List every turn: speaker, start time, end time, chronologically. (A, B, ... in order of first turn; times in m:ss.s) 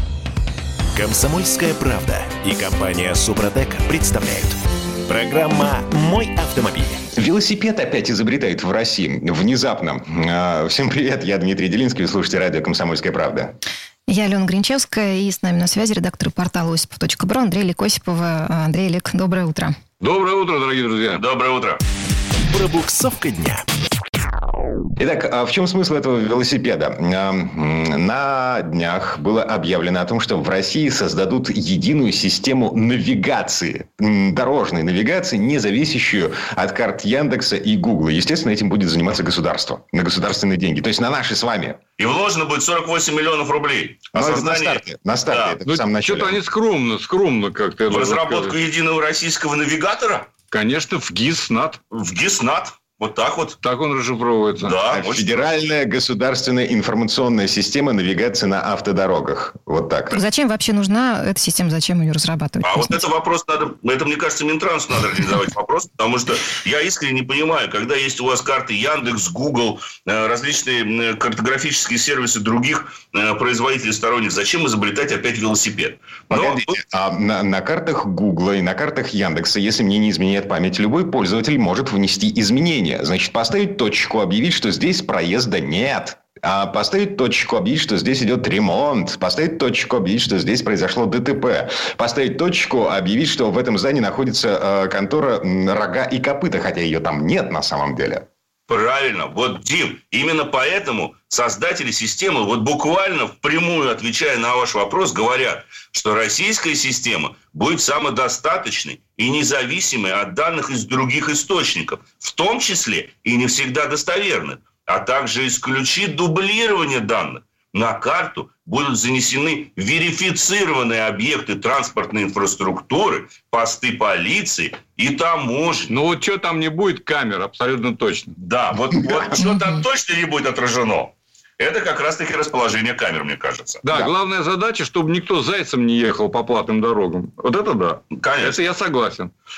0:00.9-0:07.0 A
0:07.1-0:13.6 B
0:14.1-0:19.7 C
0:20.0-0:21.2 D
0:21.1-0:21.8 E
0:22.5-0:23.6 A
0:25.0-0:41.8 B
0:42.0-0:45.6 E
0:44.1-0:46.4 B
0:45.6-0:48.5 D
0:47.9-0:50.3 E
0:50.5-0:51.8 D
0:51.9-0:53.6 E
0:53.6-0:54.7 D
0:54.6-0:55.5 E
0:54.9-1:00.2 B
1:00.1-1:03.0 C
1:02.6-1:16.7 E
1:16.3-1:38.2 B
1:38.7-2:05.9 E
2:05.9-2:08.3 D
2:08.4-2:13.8 E
2:13.8-2:19.3 D
2:18.2-2:18.6 E